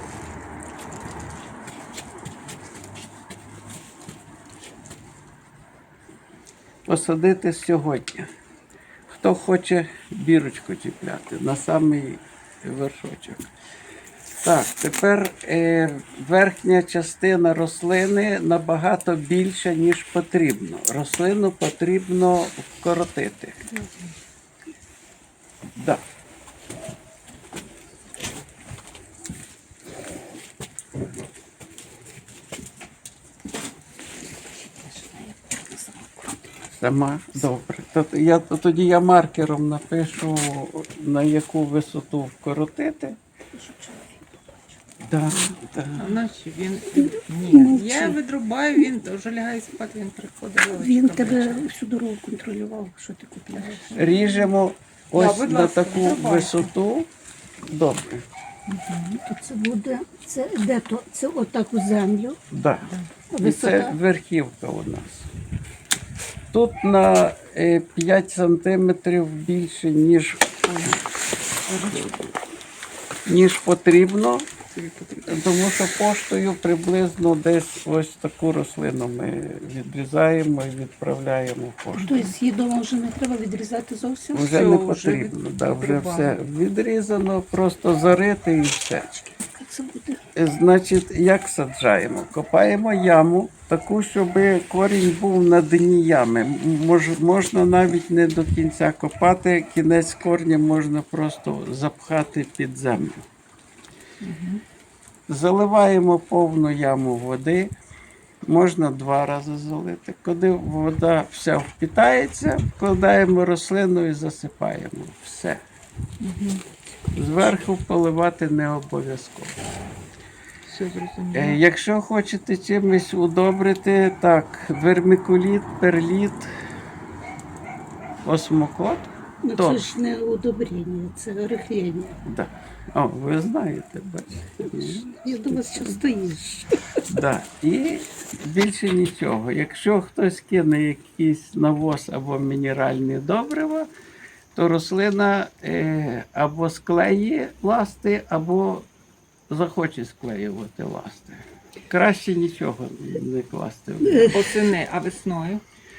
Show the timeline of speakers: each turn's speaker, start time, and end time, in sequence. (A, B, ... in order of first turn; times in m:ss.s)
0:06.9-0:08.3 A
0:09.1-0:13.5 A
0:14.4-0:23.6 A
0:25.8-0:26.0 A
0:34.6-0:36.4 B
0:36.8-0:43.2 A
0:43.5-0:44.8 B
0:45.0-0:46.2 A
0:46.0-0:51.7 C
0:47.0-0:48.2 B
0:50.7-0:53.9 B
0:53.6-0:54.5 C
0:54.0-0:57.1 A
0:55.1-0:56.7 C
0:57.7-0:58.2 A
0:58.7-0:59.2 C
0:59.2-1:02.4 B
1:02.5-1:02.9 A
1:02.8-1:03.1 C
1:03.3-1:04.0 B
1:03.4-1:05.3 A
1:06.5-1:10.8 A
1:11.7-1:12.1 C
1:11.9-1:12.4 A
1:13.3-1:14.5 A
1:14.7-1:15.4 C
1:15.3-1:22.3 A
1:22.0-1:24.7 B
1:24.3-1:29.1 A
1:24.5-1:26.4 C
1:29.2-1:30.2 B
1:30.4-1:43.2 A
1:44.2-1:44.6 C
1:45.3-1:47.7 A
1:48.5-1:55.6 A
1:56.2-1:56.6 C
1:57.2-1:59.6 A
2:00.7-2:01.6 C
2:01.3-2:06.5 A
2:08.2-2:09.9 A
2:09.4-2:12.2 B
2:12.2-2:16.0 A
2:14.8-2:16.7 B
2:17.1-2:23.9 A
2:24.6-2:28.9 A
2:29.5-2:34.4 A
2:34.0-2:34.4 B
2:34.3-2:35.6 C